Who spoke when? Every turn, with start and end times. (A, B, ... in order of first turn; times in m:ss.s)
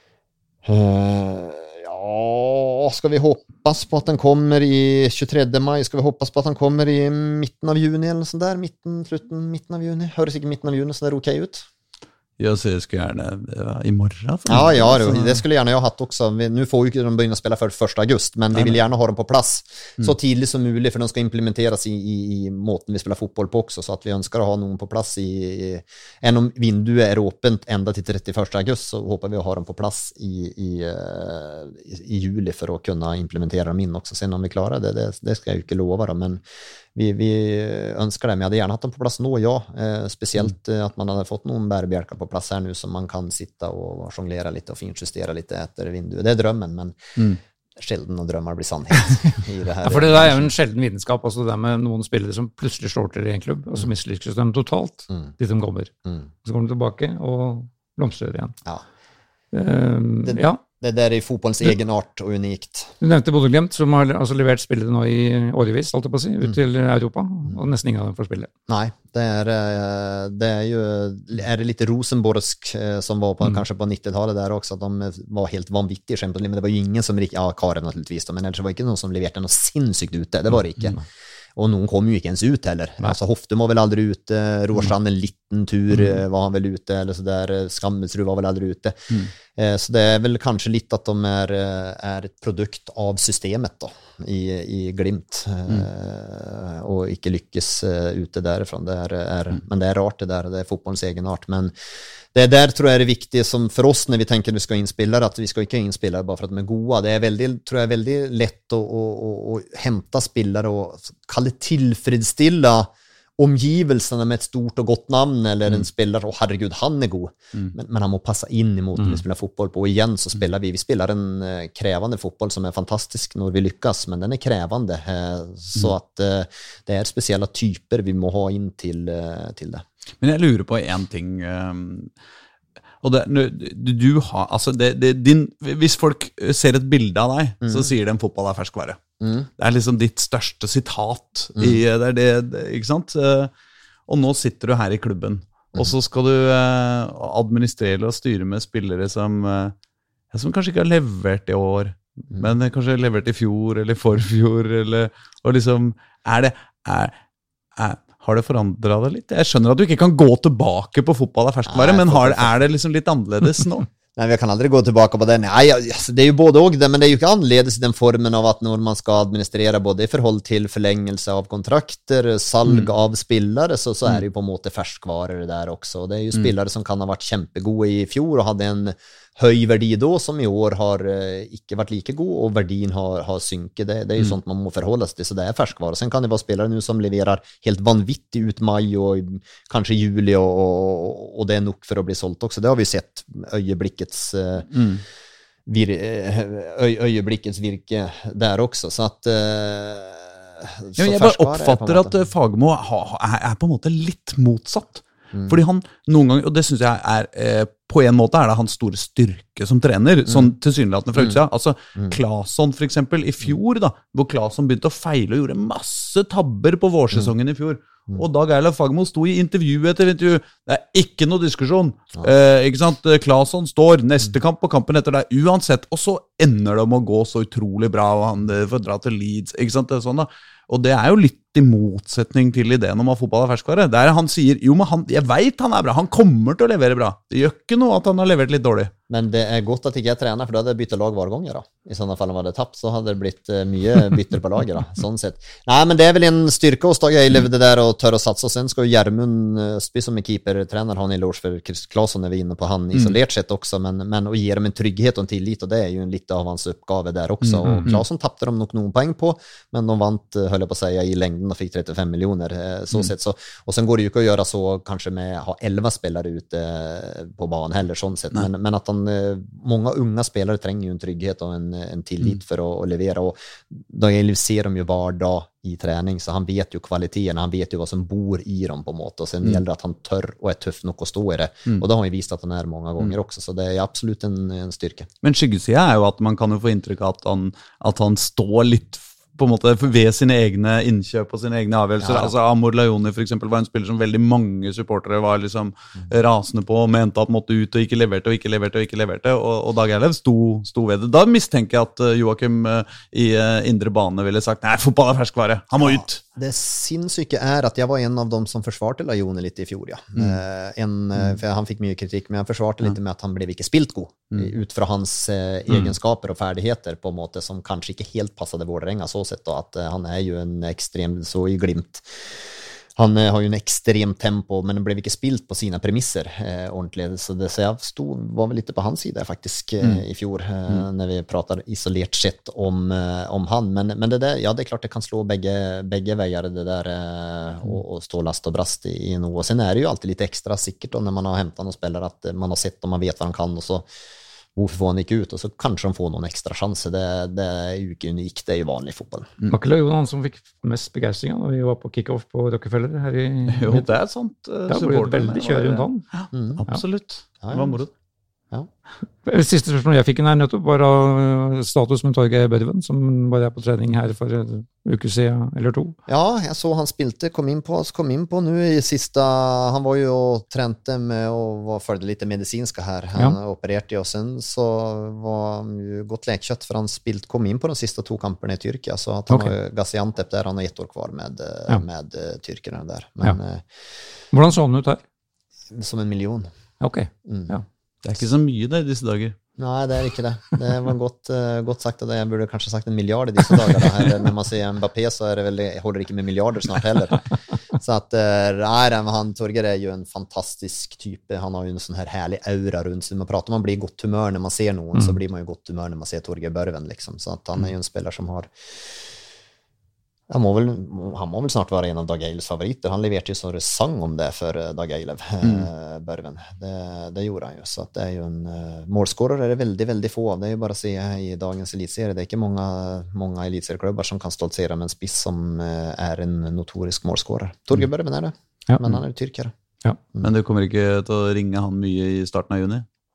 0:00.6-0:11.7 A
0:12.4-0:15.4 B
0:14.5-0:36.4 A
0:36.9-0:47.2 A
0:47.8-0:50.5 A
0:49.8-0:55.9 C
0:56.4-0:58.5 C
0:59.5-1:00.6 C
1:00.2-1:02.9 A
1:03.0-1:08.5 C
1:08.7-1:21.0 A
1:21.6-1:41.7 A
1:42.3-2:09.8 A
2:10.2-2:12.1 B
2:13.0-2:19.0 B
2:19.2-2:19.5 A
2:19.6-2:23.5 B
2:21.6-2:21.8 A
2:24.1-2:29.7 B
2:30.3-2:37.1 B
2:37.8-2:43.9 B
2:41.7-2:42.6 A
2:44.2-3:14.7 A
3:14.7-3:15.0 B
3:15.6-3:22.1 A
3:21.0-3:58.9 B
3:59.1-4:45.1 A
4:17.4-4:18.0 B
4:45.2-5:06.2 B
4:52.0-4:52.3 A
5:05.8-5:43.8 A
5:44.6-5:49.3 A
5:49.5-5:53.9 C
5:53.5-5:57.9 B
5:54.7-5:56.1 C
5:56.3-5:56.6 A
5:57.4-5:57.8 A
5:59.2-6:06.0 C
6:06.1-6:23.6 A
6:19.3-6:19.5 C
6:24.3-6:25.0 C
6:25.7-6:26.5 A
6:26.8-6:27.6 C
6:27.2-6:27.5 A
6:28.0-6:29.4 B
6:29.6-6:48.5 A
6:50.3-7:09.5 A
7:10.2-7:12.8 B